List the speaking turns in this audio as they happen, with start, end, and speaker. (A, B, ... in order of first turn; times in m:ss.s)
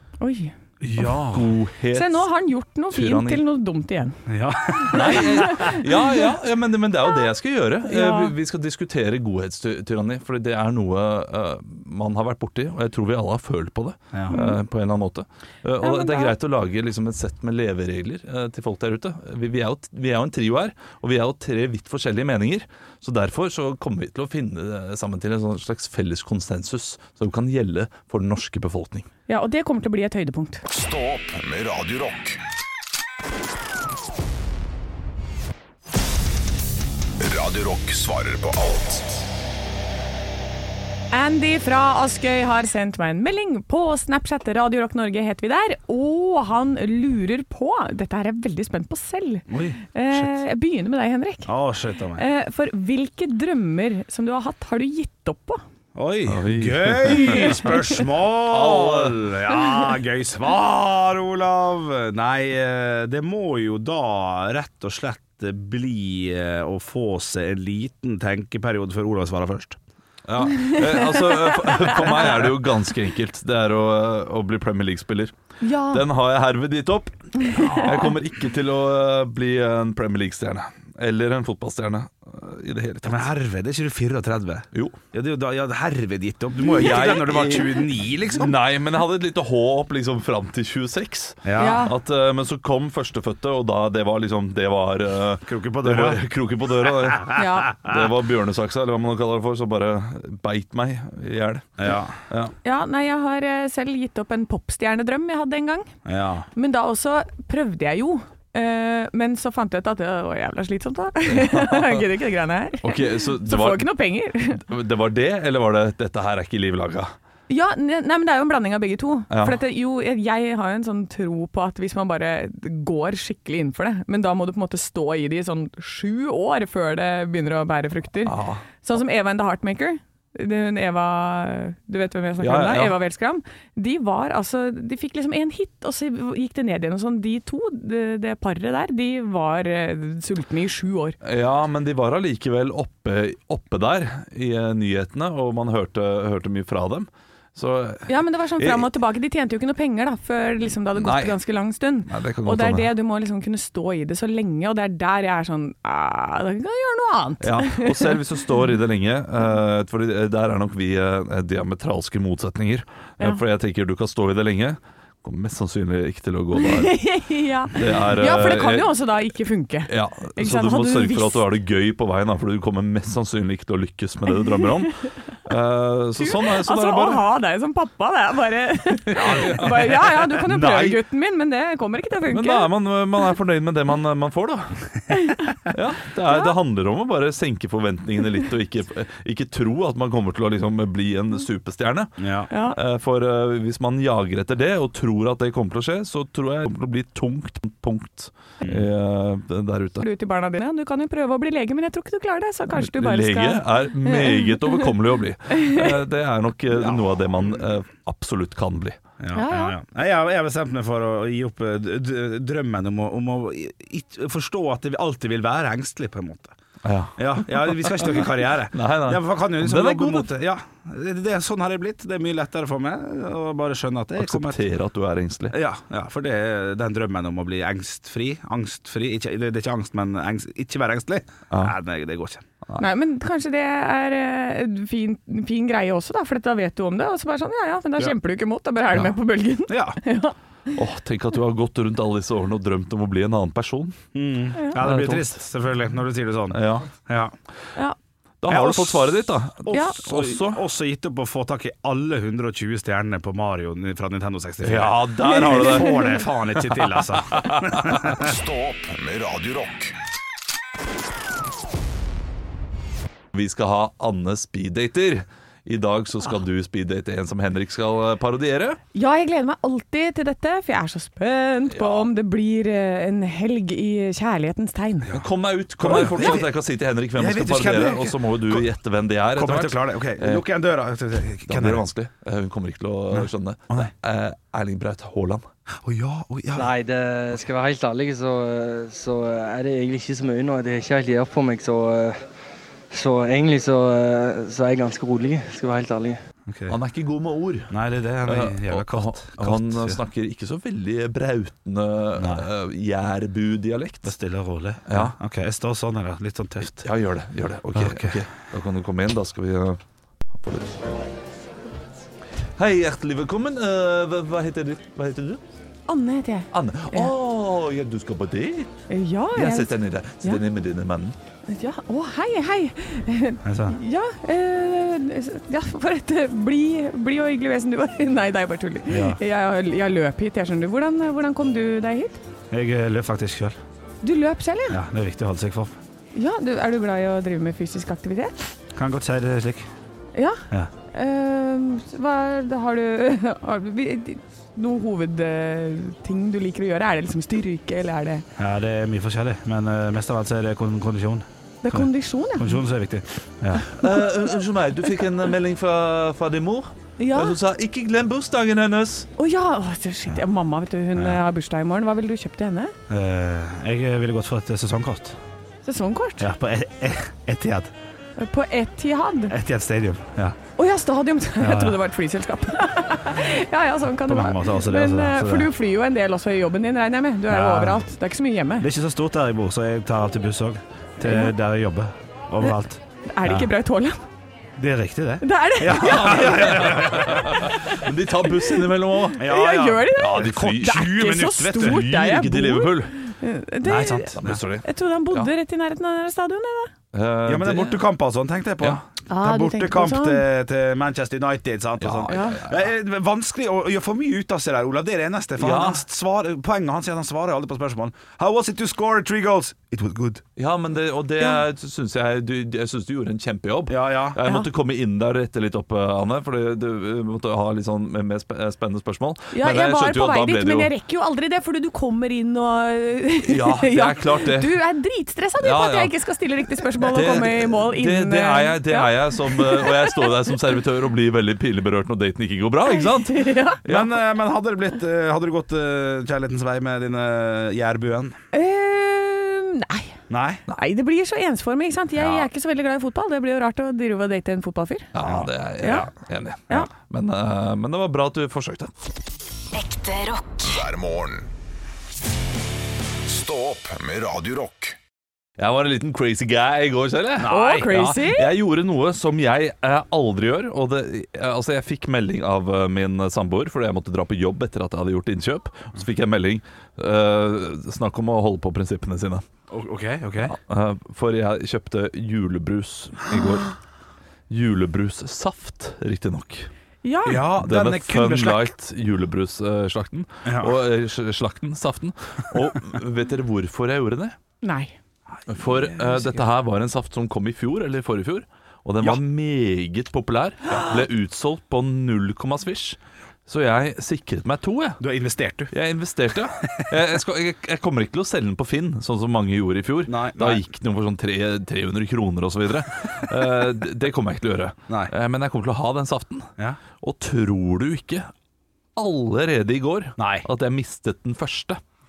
0:00.2-0:00.5 A
0:00.8-0:01.5 B
0:01.0-0:02.3 C
0:01.9-0:04.2 A
0:02.9-0:03.4 C
0:04.3-0:05.7 B
0:04.7-0:06.2 A
0:04.9-0:29.1 C
0:07.9-0:08.3 A
0:14.3-0:14.6 A
0:15.8-0:16.3 A
0:29.3-0:30.6 A
0:30.7-0:32.4 D
0:37.2-0:39.2 D
0:41.1-0:51.5 A
0:49.5-0:50.3 B
0:51.5-0:52.2 B
0:52.2-0:55.6 A
0:55.9-1:09.8 B
0:56.3-0:57.6 C
0:57.2-0:57.9 A
0:58.4-0:59.3 C
1:10.3-1:23.3 C
1:10.5-1:12.1 A
1:15.6-1:16.0 A
1:17.4-1:18.0 A
1:23.0-1:28.6 B
1:24.7-1:25.0 C
1:26.6-1:42.5 C
1:31.4-1:31.8 B
1:31.6-1:31.9 A
1:35.4-1:36.2 B
1:37.3-1:37.8 A
1:41.8-1:42.2 B
1:42.6-1:45.9 A
1:46.0-1:46.5 B
1:46.5-1:54.6 A
1:51.3-1:52.0 C
1:52.8-1:53.9 C
1:54.6-1:57.1 C
1:57.5-2:21.2 A
1:59.3-1:59.6 C
2:08.2-2:08.6 C
2:12.4-2:13.0 C
2:21.2-2:28.9 C
2:28.1-2:38.2 A
2:30.9-2:31.4 C
2:32.0-2:32.9 C
2:37.4-2:47.0 C
2:46.6-2:51.4 A
2:47.7-2:48.9 C
2:49.9-2:57.2 C
2:54.5-2:54.9 A
2:56.2-3:02.7 A
2:59.1-3:01.0 C
3:02.2-3:04.8 C
3:05.1-3:05.6 A
3:05.7-3:20.0 C
3:12.2-3:12.5 B
3:12.5-3:12.8 A
3:20.0-3:24.9 A
3:22.7-3:29.0 C
3:25.5-3:25.9 A
3:29.2-3:36.5 B
3:29.3-3:29.8 A
3:36.8-3:40.3 C
3:37.2-3:44.6 B
3:44.2-3:45.6 C
3:45.5-3:52.5 B
3:52.8-4:00.3 A
3:59.7-4:00.0 B
4:00.7-4:04.0 C
4:04.1-4:07.3 B
4:04.7-4:05.4 C
4:06.5-4:06.9 C
4:08.4-4:10.6 C
4:08.5-4:18.3 B
4:09.7-4:10.0 A
4:14.6-4:16.1 C
4:15.3-4:16.2 A
4:16.6-4:18.0 C
4:18.1-4:20.0 D
4:23.3-4:28.8 C
4:28.9-4:35.1 A
4:31.7-4:32.1 C
4:35.1-4:40.4 C
4:35.8-4:36.5 B
4:37.1-4:38.7 B
4:39.3-4:41.8 B
4:41.5-4:45.4 C
4:43.1-4:43.9 B
4:45.8-4:46.7 B
4:46.5-4:52.2 E
4:52.9-4:56.2 E
4:56.5-4:56.8 B
4:56.7-5:04.1 C
4:57.7-5:00.0 B
5:02.2-5:02.5 B
5:04.0-5:06.8 B
5:04.9-5:05.1 C
5:06.6-5:09.8 C
5:07.7-5:08.2 B
5:10.3-5:10.8 C
5:12.6-5:15.4 C
5:15.9-5:17.1 A
5:16.5-5:18.7 C
5:18.9-5:20.4 A
5:19.3-5:21.2 C
5:21.5-5:32.2 A
5:23.4-5:23.8 B
5:28.9-5:29.2 B
5:32.5-5:33.6 B
5:34.0-5:34.8 A
5:34.7-5:35.7 B
5:36.1-5:38.5 A
5:38.8-5:39.7 B
5:40.1-5:48.2 A
5:48.4-5:53.7 B
5:51.6-5:52.6 A
5:53.7-5:59.1 C
5:57.0-5:57.4 A
5:59.2-6:02.7 A
6:02.9-6:05.2 B
6:05.6-6:06.3 A
6:06.2-6:07.7 B
6:08.2-6:09.4 A
6:09.3-6:10.4 B
6:10.6-6:18.7 A
6:11.4-6:11.8 B
6:14.0-6:15.5 B
6:17.3-6:17.9 B
6:18.6-6:23.5 B
6:21.0-6:21.3 A
6:23.1-6:24.0 A
6:24.6-6:27.5 B
6:25.2-6:26.6 A
6:25.7-6:29.3 C
6:29.2-6:31.9 B
6:29.2-6:36.7 A
6:29.9-6:30.8 C
6:31.5-6:33.0 C
6:33.6-6:34.4 B
6:34.2-6:35.3 C
6:36.9-6:37.9 C
6:37.2-6:50.2 B
6:39.1-6:40.2 A
6:41.8-6:42.6 C
6:42.1-6:42.4 A
6:45.4-6:45.8 C
6:50.4-7:00.7 C
6:53.7-6:54.2 B
6:59.3-7:10.2 A
7:03.2-7:04.6 C
7:05.4-7:05.9 C
7:06.8-7:13.9 C
7:12.7-7:13.6 A
7:13.6-7:18.2 B
7:18.3-7:20.0 A
7:20.1-7:20.4 B
7:20.5-7:24.9 A
7:22.0-7:22.3 C
7:24.9-7:28.7 C
7:25.0-7:25.3 B
7:25.6-7:25.9 A
7:29.5-7:30.6 E
7:30.4-7:31.3 D
7:33.0-7:34.8 D
7:35.4-7:49.2 C
7:37.2-7:37.7 B
7:37.2-7:38.3 A
7:49.5-7:50.4 B
7:50.3-7:53.5 C
7:54.3-7:56.5 C
7:56.8-7:57.2 A
7:57.0-7:58.5 B
7:57.3-8:04.2 C
8:00.2-8:00.5 B
8:04.4-8:04.7 A
8:05.3-8:14.8 C
8:05.4-8:06.2 B
8:14.8-8:15.5 B
8:15.5-8:26.3 C
8:19.9-8:20.4 B
8:24.7-8:24.9 B
8:26.8-8:28.1 C
8:28.8-8:31.6 C
8:30.0-8:30.3 B